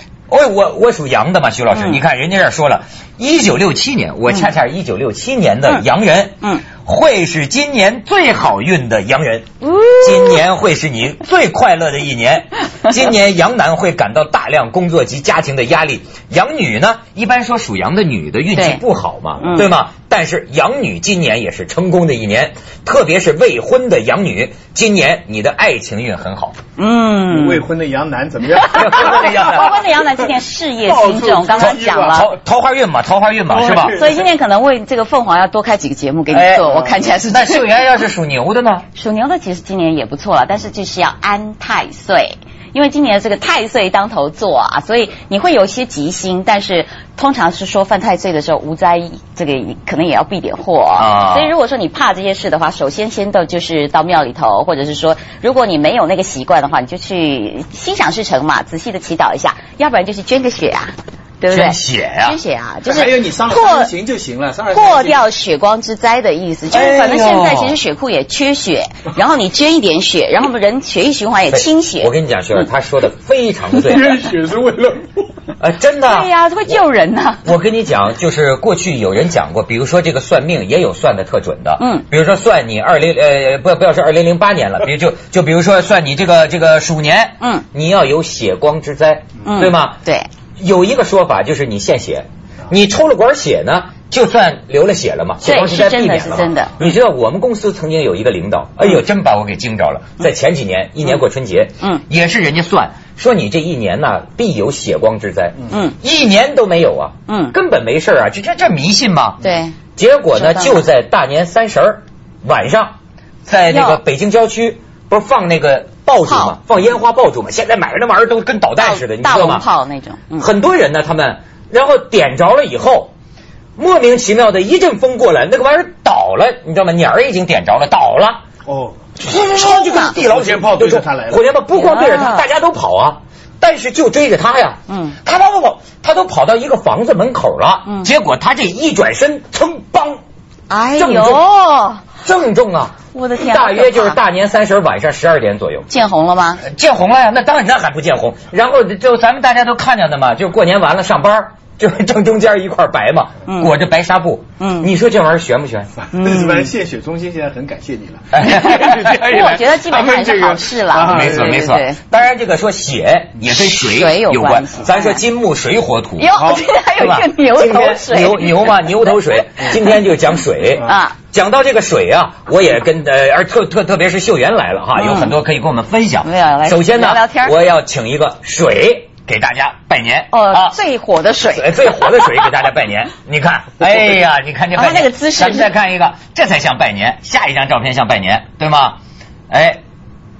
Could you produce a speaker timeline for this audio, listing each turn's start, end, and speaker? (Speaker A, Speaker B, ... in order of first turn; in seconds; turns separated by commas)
Speaker A: 0.3-26.6, Speaker B: 1.7-2.0, Speaker B: 9.8-10.4, Speaker B: 18.6-18.8, Speaker B: 19.4-19.7, Speaker B: 26.8-27.6, Speaker C: 27.3-29.7, Speaker A: 28.6-29.8, Speaker B: 28.7-32.3, Speaker C: 30.9-32.3, Speaker A: 31.6-34.0, Speaker C: 33.5-34.3, Speaker B: 33.9-37.7, Speaker A: 36.3-38.9, Speaker B: 39.0-63.9, Speaker A: 51.0-51.5, Speaker A: 61.5-62.4, Speaker C: 62.9-65.2, Speaker B: 64.7-72.1, Speaker A: 66.7-67.8, Speaker A: 71.5-74.2, Speaker C: 73.8-75.3, Speaker A: 75.6-76.8, Speaker B: 76.0-77.5, Speaker A: 77.5-90.0, Speaker B: 81.8-82.0, Speaker B: 89.5-90.3, Speaker A: 90.6-109.4, Speaker B: 95.4-96.8, Speaker B: 105.7-106.0, Speaker B: 107.3-107.6, Speaker B: 109.4-109.8, Speaker A: 110.0-113.0, Speaker B: 110.3-110.8, Speaker A: 113.5-119.6, Speaker B: 113.7-114.0, Speaker B: 116.2-116.5, Speaker B: 118.8-120.5, Speaker A: 120.4-123.1, Speaker A: 123.8-128.4, Speaker C: 128.7-131.4, Speaker A: 129.2-140.2, Speaker B: 129.3-130.2, Speaker B: 131.7-132.5, Speaker B: 134.9-135.2, Speaker B: 140.7-142.1, Speaker A: 141.0-141.4, Speaker A: 142.2-145.9, Speaker B: 143.1-144.2, Speaker B: 145.9-146.6, Speaker A: 146.6-155.9, Speaker B: 153.5-153.7, Speaker B: 154.6-154.9, Speaker C: 156.0-161.7, Speaker B: 156.1-156.7, Speaker A: 158.3-159.1, Speaker B: 158.4-162.0, Speaker A: 161.1-166.3, Speaker B: 163.5-165.2, Speaker B: 166.2-168.8, Speaker C: 166.4-166.7, Speaker A: 167.0-180.8, Speaker B: 170.8-171.2, Speaker B: 175.0-175.3, Speaker B: 176.2-177.6, Speaker B: 180.3-182.4, Speaker A: 181.4-189.0, Speaker B: 184.8-185.7, Speaker A: 189.5-189.8